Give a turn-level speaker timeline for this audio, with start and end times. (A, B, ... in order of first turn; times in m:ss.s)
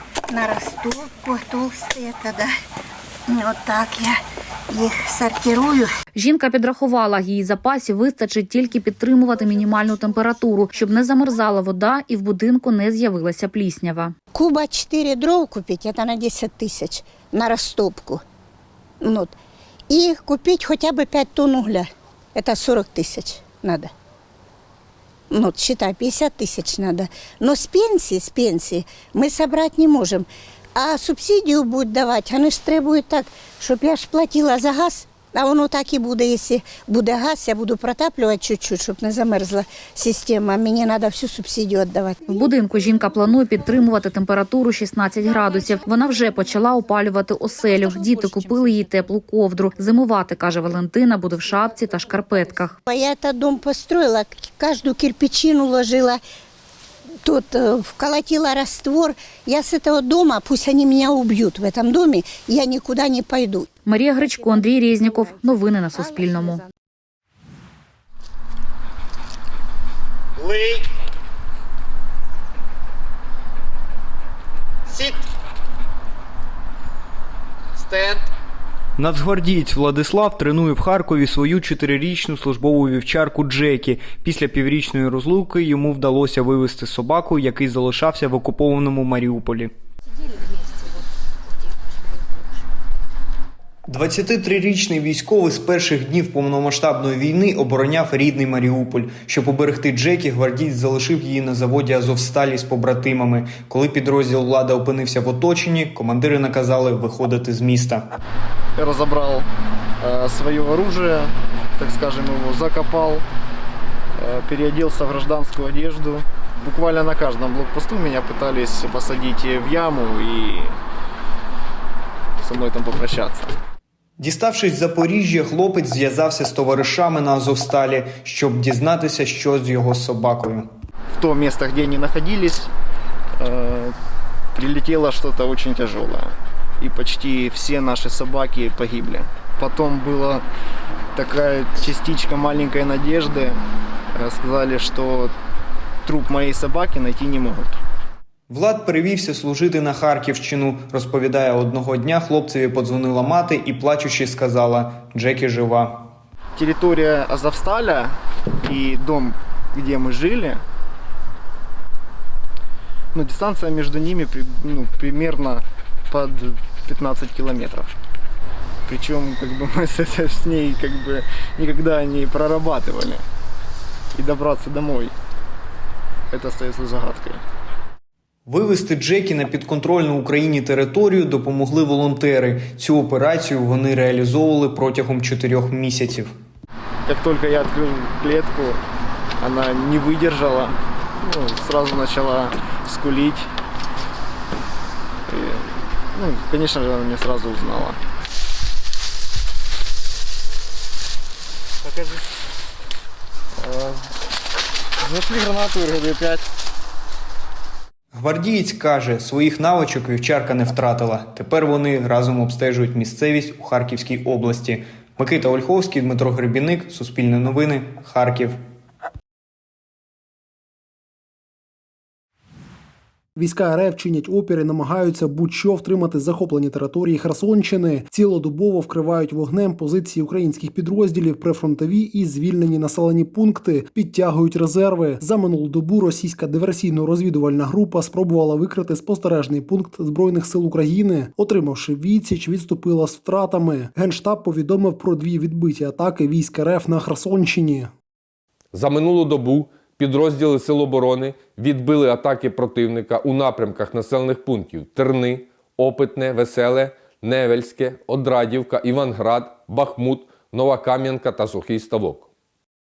0:00.3-0:02.5 A
0:03.3-0:04.2 A
0:04.7-0:05.9 A
0:06.2-0:14.2 B
0:14.3-0:18.2 A
0:19.0-0:19.3 A
0:19.9-0:23.9 A
0:25.3-0:42.2 A
0:42.3-0:52.8 B
0:52.9-0:56.2 A
0:57.2-1:03.7 A
1:03.9-1:06.6 B
1:19.0-1:29.7 C
1:33.9-1:48.1 C
1:48.8-1:49.5 D
1:50.0-1:53.2 D
1:54.2-2:00.8 D
2:02.4-2:03.5 D
2:04.2-2:10.7 C
2:11.1-2:12.7 D
2:13.4-2:13.9 D
2:14.6-2:20.4 D
2:21.1-2:23.6 D
2:24.2-2:25.3 D
2:26.1-2:27.8 D
2:28.5-2:36.1 C
2:36.6-2:40.6 D
2:43.1-2:47.9 D
2:48.9-2:53.2 D
2:54.2-2:55.1 D
2:56.3-2:57.4 D
2:58.5-3:06.3 C
3:07.1-3:08.8 D
3:09.4-3:13.5 D
3:15.3-3:18.0 D
3:21.8-3:22.2 D
3:23.6-3:24.1 D
3:25.0-3:26.4 D
3:28.1-3:38.6 C
3:43.4-4:07.9 E
4:08.7-4:22.3 F